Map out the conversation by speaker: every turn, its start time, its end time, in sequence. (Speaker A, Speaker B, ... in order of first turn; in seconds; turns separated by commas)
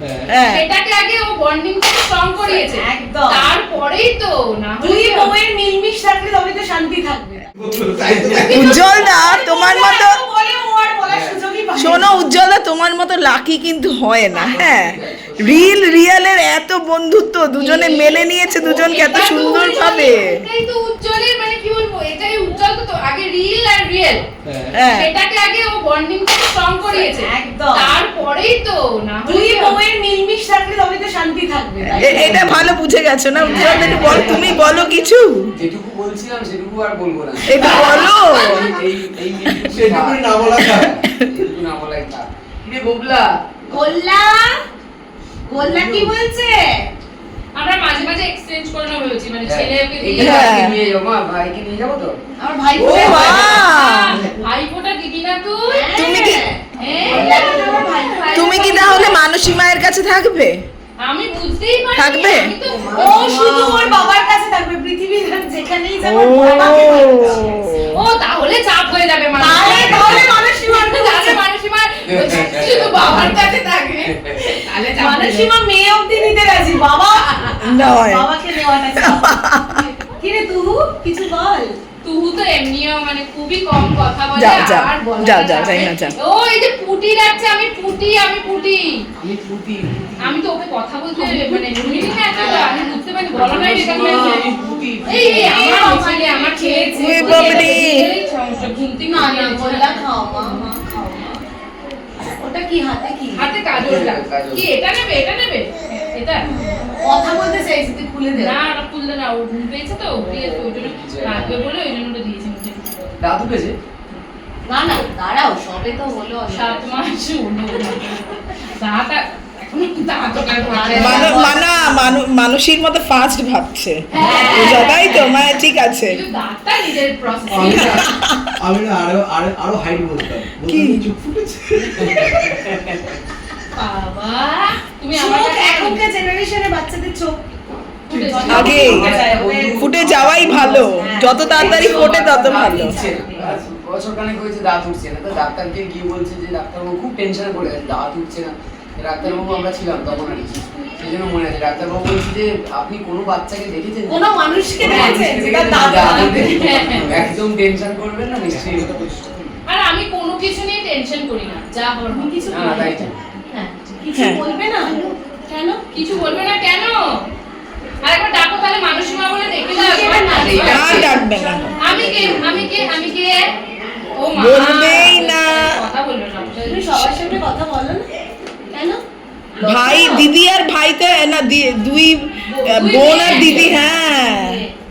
Speaker A: 0.3-0.6, Speaker B: 0.4-5.3, Speaker C: 2.4-3.5, Speaker C: 4.8-7.5, Speaker D: 7.6-8.9, Speaker E: 8.0-8.5, Speaker A: 8.3-10.2, Speaker C: 8.5-12.2, Speaker E: 11.1-11.4, Speaker A: 11.8-20.4, Speaker E: 14.3-15.8, Speaker B: 18.6-24.2, Speaker A: 24.7-25.1, Speaker B: 24.8-29.8, Speaker C: 26.9-27.9, Speaker C: 29.3-32.5, Speaker A: 31.9-35.5, Speaker D: 32.1-32.7, Speaker C: 33.4-35.0, Speaker E: 33.5-34.5, Speaker B: 33.5-34.6, Speaker E: 35.5-43.7, Speaker A: 37.5-38.7, Speaker C: 37.5-38.9, Speaker D: 39.6-41.0, Speaker C: 43.7-44.6, Speaker C: 45.5-46.9, Speaker E: 45.6-46.1, Speaker B: 47.5-50.7, Speaker E: 49.4-52.1, Speaker A: 50.2-50.7, Speaker C: 52.4-53.7, Speaker A: 52.8-54.2, Speaker E: 52.8-53.6, Speaker B: 53.2-56.0, Speaker C: 55.7-59.0, Speaker A: 55.9-56.4, Speaker B: 56.8-59.2, Speaker E: 57.0-57.8, Speaker A: 58.3-60.6, Speaker B: 61.0-64.0, Speaker A: 62.0-62.5, Speaker E: 62.6-63.9, Speaker C: 62.9-67.5, Speaker A: 66.0-68.0, Speaker B: 67.8-75.5, Speaker C: 69.3-71.4, Speaker E: 69.7-70.2, Speaker E: 72.0-73.5, Speaker E: 74.0-74.7, Speaker C: 74.9-79.4, Speaker A: 77.6-79.8, Speaker C: 80.0-81.8, Speaker B: 82.0-89.0, Speaker A: 84.3-86.1, Speaker E: 89.2-90.4, Speaker B: 90.2-94.5, Speaker C: 91.1-93.0, Speaker E: 93.3-95.5, Speaker C: 93.6-97.9, Speaker B: 95.0-100.7, Speaker A: 97.0-98.1, Speaker C: 99.0-101.4, Speaker C: 102.2-103.5, Speaker B: 103.3-106.6, Speaker E: 103.7-104.7, Speaker C: 106.9-108.6, Speaker B: 108.3-113.1, Speaker E: 110.3-111.6, Speaker E: 113.2-113.7, Speaker C: 114.7-116.9, Speaker B: 116.5-121.6, Speaker C: 120.6-122.1, Speaker A: 120.9-126.2, Speaker B: 124.1-125.5, Speaker C: 124.2-124.9, Speaker B: 126.0-128.1, Speaker D: 127.5-132.2, Speaker A: 127.7-128.4, Speaker A: 130.6-131.1, Speaker A: 131.8-132.6, Speaker E: 131.9-133.2, Speaker B: 133.7-136.0, Speaker C: 135.1-137.4, Speaker B: 138.1-139.0, Speaker E: 138.1-140.8, Speaker C: 138.1-143.6, Speaker A: 138.5-139.2, Speaker A: 139.7-142.9, Speaker E: 141.4-159.0, Speaker C: 154.1-156.6, Speaker D: 154.8-155.4, Speaker B: 156.0-157.1, Speaker D: 156.4-157.3, Speaker D: 158.5-159.5, Speaker B: 159.7-163.1, Speaker C: 162.1-165.8, Speaker E: 162.5-163.2, Speaker A: 164.1-164.4, Speaker B: 165.9-167.2, Speaker B: 168.0-171.1, Speaker C: 169.6-173.1, Speaker E: 170.3-171.2, Speaker A: 170.7-171.7, Speaker B: 171.8-173.5, Speaker E: 172.2-172.5, Speaker B: 174.1-177.1, Speaker A: 174.4-175.7, Speaker C: 176.6-178.1, Speaker C: 178.7-179.0, Speaker C: 179.6-180.3, Speaker A: 179.6-184.6, Speaker B: 182.5-183.9, Speaker C: 183.2-184.7